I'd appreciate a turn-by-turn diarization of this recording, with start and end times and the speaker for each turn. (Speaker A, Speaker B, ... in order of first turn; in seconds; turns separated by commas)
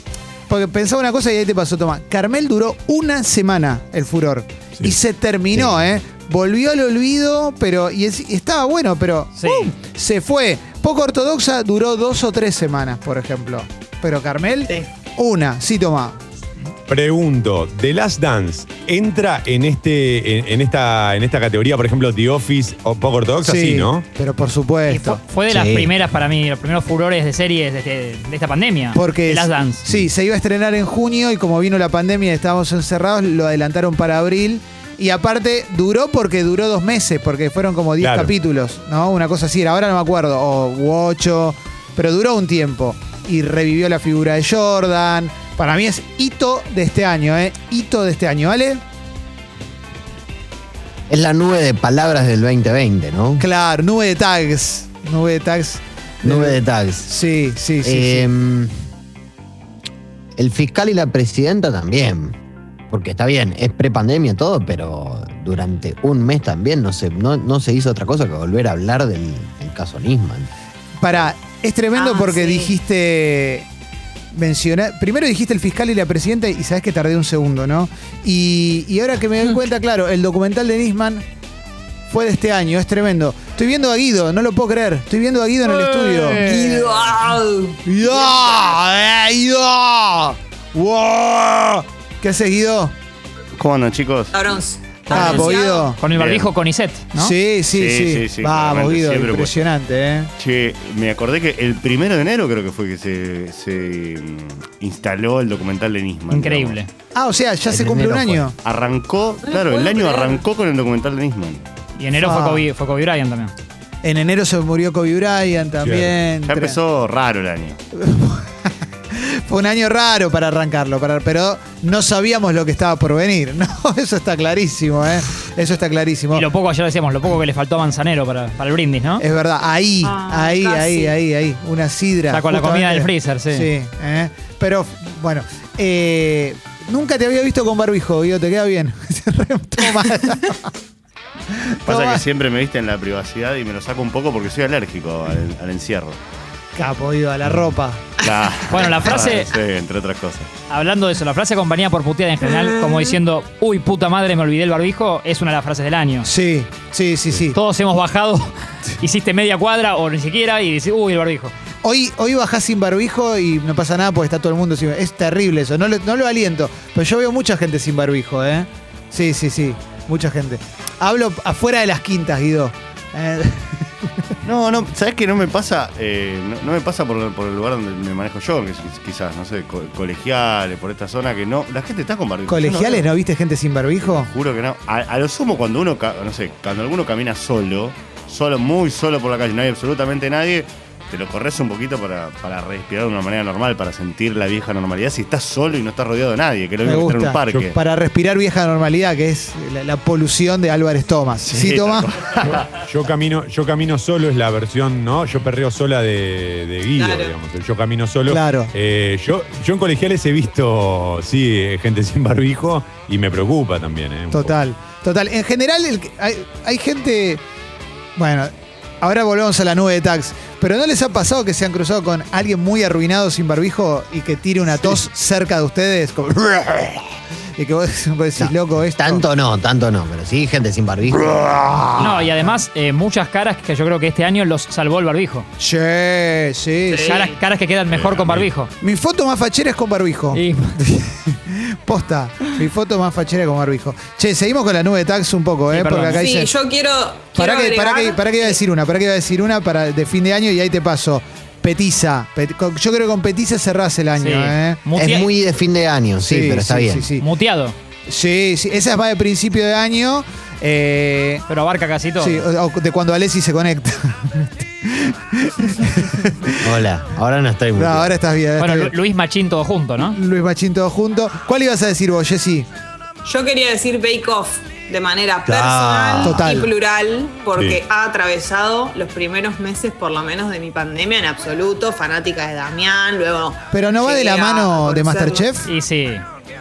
Speaker A: 0.5-16.2, Speaker B: 9.4-9.7, Speaker C: 16.9-24.1, Speaker A: 23.4-25.2, Speaker B: 24.9-29.8, Speaker D: 25.5-25.9, Speaker A: 28.9-48.8, Speaker C: 38.0-38.3, Speaker D: 51.1-53.4, Speaker A: 53.4-58.3, Speaker D: 56.2-57.1, Speaker D: 57.8-58.7, Speaker D: 60.4-62.4, Speaker D: 62.9-70.5, Speaker A: 71.0-73.7, Speaker E: 72.0-72.7, Speaker A: 74.3-81.2, Speaker A: 82.1-86.9, Speaker E: 86.1-88.4, Speaker B: 86.2-86.8, Speaker A: 87.8-92.9, Speaker F: 93.6-94.4, Speaker E: 94.3-95.9, Speaker A: 95.1-96.0, Speaker B: 95.1-97.3, Speaker F: 96.1-96.5, Speaker A: 97.1-100.3, Speaker F: 97.7-99.5, Speaker F: 100.4-106.8, Speaker B: 106.3-106.9, Speaker A: 107.2-108.5, Speaker D: 107.7-108.5, Speaker F: 108.6-111.7, Speaker E: 109.4-110.4, Speaker B: 112.0-113.5, Speaker A: 112.2-112.7, Speaker A: 114.0-116.8, Speaker C: 115.8-116.2, Speaker F: 116.5-117.8, Speaker A: 118.0-118.5, Speaker A: 119.1-126.5, Speaker B: 126.3-129.2, Speaker A: 129.2-140.7, Speaker E: 130.0-131.2, Speaker B: 132.3-133.7, Speaker A: 141.5-142.2, Speaker F: 141.9-146.2, Speaker A: 146.8-148.1, Speaker F: 148.2-150.5, Speaker B: 148.7-149.5, Speaker B: 150.7-156.3, Speaker E: 152.4-153.1, Speaker A: 156.2-157.6, Speaker B: 157.6-161.5, Speaker A: 161.8-174.1, Speaker F: 174.4-183.1, Speaker A: 182.5-184.3, Speaker F: 184.0-197.7, Speaker A: 196.8-202.1, Speaker F: 201.4-202.7, Speaker C: 202.5-214.6, Speaker E: 206.9-207.3, Speaker A: 208.3-208.7, Speaker A: 214.3-217.4, Speaker A: 218.2-227.1, Speaker A: 227.6-229.2, Speaker D: 228.4-232.3, Speaker A: 231.6-232.6, Speaker B: 232.0-235.5, Speaker A: 235.6-237.2, Speaker E: 236.9-237.4, Speaker B: 237.1-238.7, Speaker C: 237.9-238.5, Speaker A: 238.8-246.5, Speaker B: 240.3-240.8, Speaker B: 245.7-246.3, Speaker E: 246.1-248.6, Speaker A: 247.4-254.9, Speaker B: 254.2-255.3, Speaker D: 254.9-257.1, Speaker A: 256.2-257.3, Speaker B: 257.2-257.8, Speaker A: 258.1-261.4, Speaker B: 261.5-262.5, Speaker A: 262.2-266.7, Speaker D: 266.6-268.2, Speaker A: 267.8-268.9, Speaker B: 268.6-270.2, Speaker A: 270.0-272.7, Speaker E: 273.2-285.5, Speaker D: 275.5-276.4, Speaker A: 276.2-276.7, Speaker A: 283.7-285.7, Speaker B: 285.7-286.2